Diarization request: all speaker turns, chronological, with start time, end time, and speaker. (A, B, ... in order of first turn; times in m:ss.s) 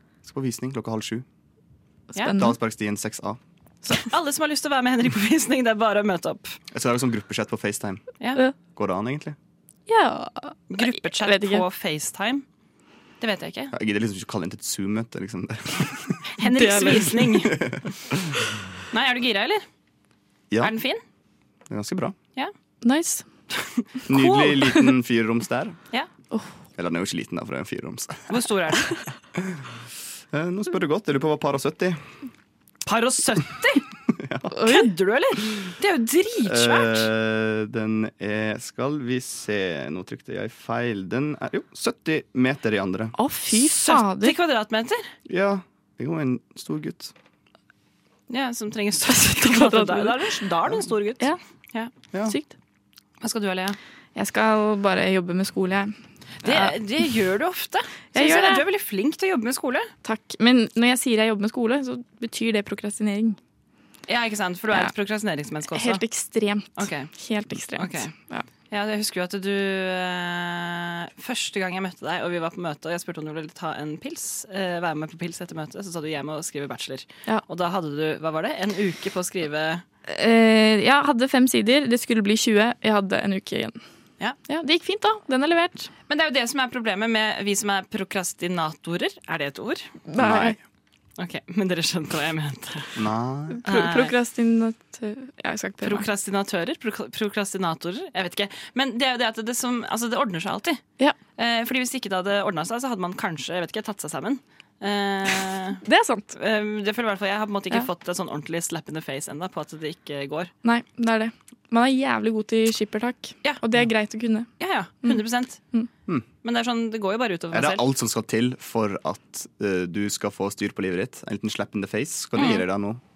0:00.2-0:01.2 A
0:02.1-0:02.5 B
0:02.3-0:03.4 A
0:03.8-0:06.6 C
0:06.7-0:08.0 A
0:08.7-0:09.4 A
0:09.9-0:11.6 B
0:10.7-0:12.4 C
0:13.2-0:13.7 C
0:13.7-0:16.3 A
0:16.4-0:17.6 C
0:16.4-0:17.3 B
0:17.3-0:18.3 A
0:18.9-0:19.6 C
0:20.6-0:21.0 C
0:21.7-0:22.2 A
0:22.8-0:23.2 B
0:23.8-0:24.8 C
0:24.1-0:25.8 A
0:26.8-0:28.4 A
0:28.3-0:29.0 C
0:30.3-0:32.0 A
0:32.8-0:33.8 C
0:34.1-0:34.5 A
0:34.5-0:34.9 B
0:34.5-0:37.1 C
0:36.4-0:43.2 A
0:43.2-0:44.3 B
0:43.5-0:45.1 C
0:45.2-0:47.1 A
0:48.3-0:51.9 C
0:49.1-0:50.2 B
0:52.3-0:52.5 B
0:53.2-0:53.8 C
0:54.1-0:56.7 B
0:56.4-0:59.9 C
0:58.1-0:58.6 B
1:00.0-1:03.4 B
1:04.1-1:06.0 C
1:05.7-1:08.4 B
1:06.8-1:07.1 C
1:07.7-1:08.1 C
1:08.7-1:19.8 C
1:20.1-1:23.8 B
1:24.5-1:25.9 B
1:26.1-1:29.9 C
1:30.1-1:30.6 B
1:30.2-1:30.6 A
1:31.2-1:33.0 C
1:33.0-1:33.6 A
1:33.5-1:36.0 B
1:33.6-1:34.1 C
1:35.8-1:40.8 C
1:41.4-1:50.5 C
1:45.8-1:46.3 B
1:50.6-1:54.5 B
1:54.6-1:55.6 C
1:56.4-1:57.8 C
1:57.5-2:03.0 A
2:02.4-2:02.6 C